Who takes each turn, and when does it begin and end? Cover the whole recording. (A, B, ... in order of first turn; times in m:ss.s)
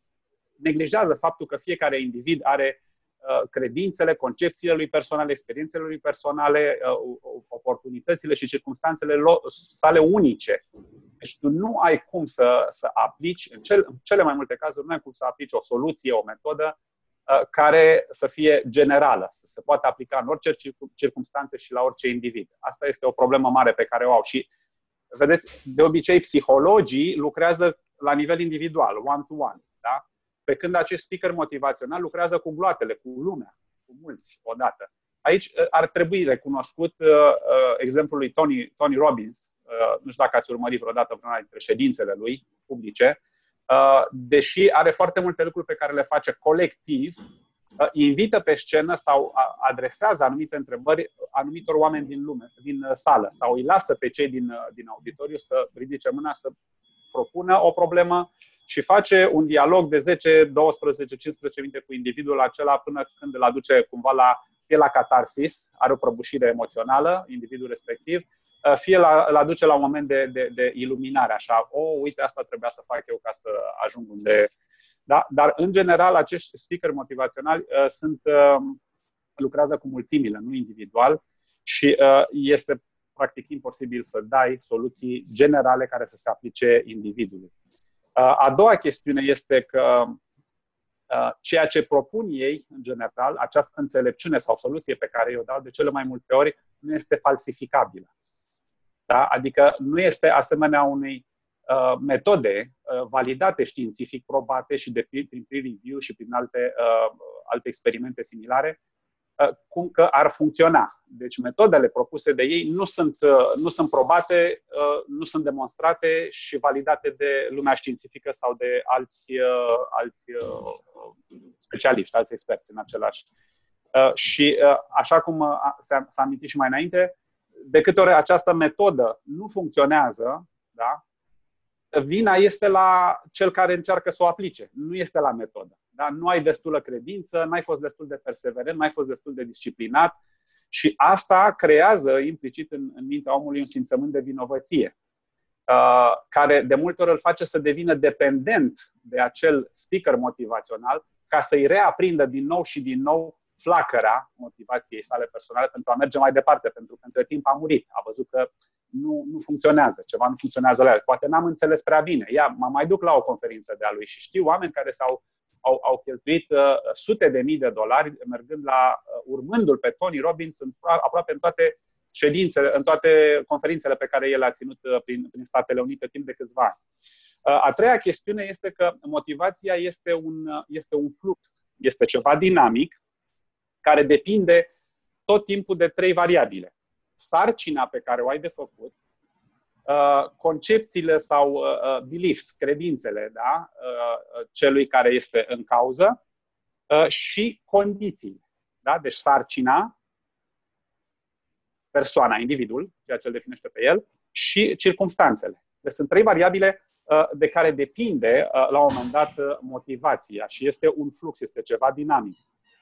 0:00.6-0:10.6 A
0:11.2-0:16.8 A
0:17.3-0:24.5 A
0:25.1-0:47.2 A
0:47.8-0:56.5 A
0:57.1-1:14.5 A
1:15.1-1:18.8 A
1:19.4-1:27.5 A
1:28.2-1:30.2 A
1:31.1-1:38.1 A
1:39.1-1:48.8 A
1:49.4-2:01.1 A
2:01.6-2:03.3 A
2:03.9-2:11.0 A
2:11.9-2:20.2 A
2:20.7-2:24.9 A
2:25.7-2:56.8 A
2:57.4-3:03.0 A
3:03.8-3:04.7 A
3:05.3-3:08.9 A
3:09.9-3:16.2 A
3:16.9-3:19.9 A
3:21.9-3:32.4 A